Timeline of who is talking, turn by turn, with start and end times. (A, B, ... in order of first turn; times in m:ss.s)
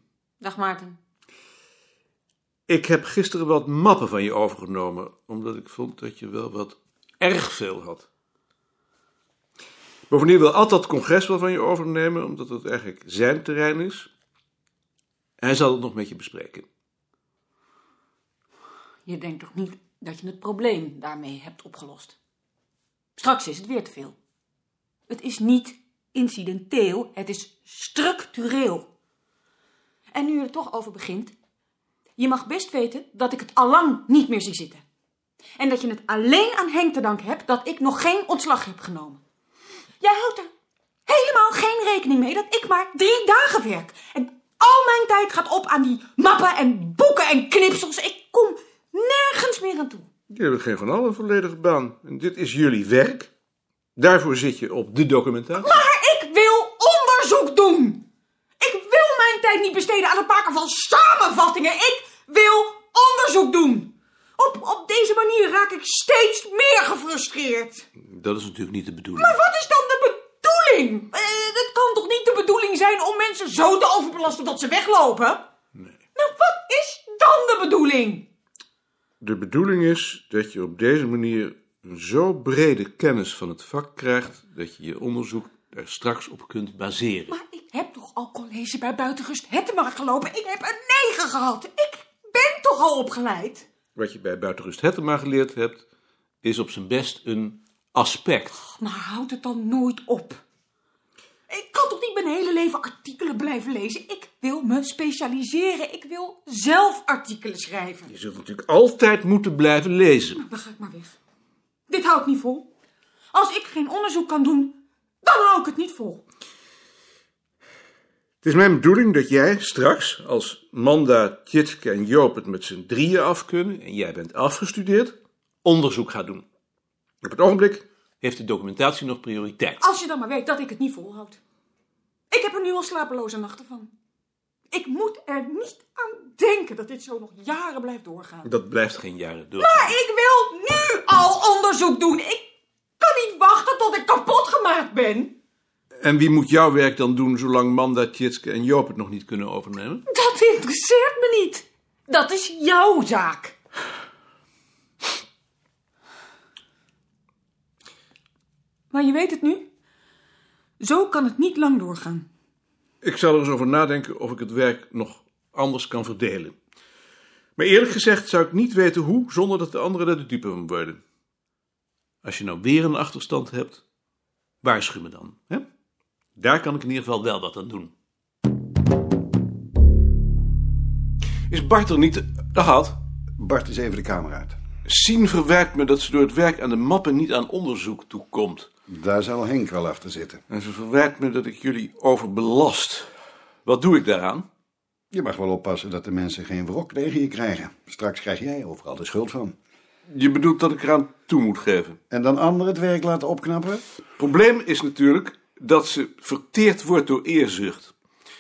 0:00.4-0:01.0 A
0:02.7-0:08.1 B
0:10.1-0:14.1 B
0:15.4-0:16.6 B
0:19.1-0:22.2 A
0:23.2-0:24.2 A
0:25.1-0:28.9 A
0:30.1-0:31.3 A
0:32.2-0:34.8 A
0:35.6-0:39.2 A
0:40.0-0:40.5 A
0:41.1-0:50.1 A
0:50.3-0:53.3 B
0:54.0-0:55.8 B
0:55.6-0:58.1 A
0:58.6-1:07.9 A
1:08.0-1:09.4 B
1:09.2-1:15.5 A
1:16.2-1:18.3 A
1:19.2-1:27.3 B
1:27.3-1:33.7 A
1:34.0-1:35.8 B
1:36.4-1:38.6 B
1:38.6-1:40.4 A
1:41.5-1:48.1 A
1:48.1-1:50.4 B
1:50.3-1:51.2 A
1:51.9-1:52.7 A
1:53.3-1:56.2 A
1:58.4-2:06.4 B
2:07.2-2:09.8 B
2:09.8-2:11.4 A
2:12.3-2:13.9 A
2:14.7-2:18.5 A
2:18.4-2:19.9 B
2:19.6-2:25.4 A
2:26.0-2:30.0 B
2:30.1-2:33.6 A
2:38.9-2:39.7 A
2:40.8-2:42.3 A
2:43.0-2:46.6 B
2:47.6-2:51.0 B
2:52.2-2:53.8 B
2:54.6-2:55.6 B
2:56.4-2:57.9 B
3:01.5-3:03.0 B
3:03.4-3:04.6 C
3:04.8-3:08.7 B
3:08.9-3:10.4 C
3:10.5-3:13.1 B
3:13.6-3:14.4 B
3:15.1-3:19.5 C
3:20.1-3:22.0 B
3:22.1-3:23.9 C
3:24.2-3:27.9 B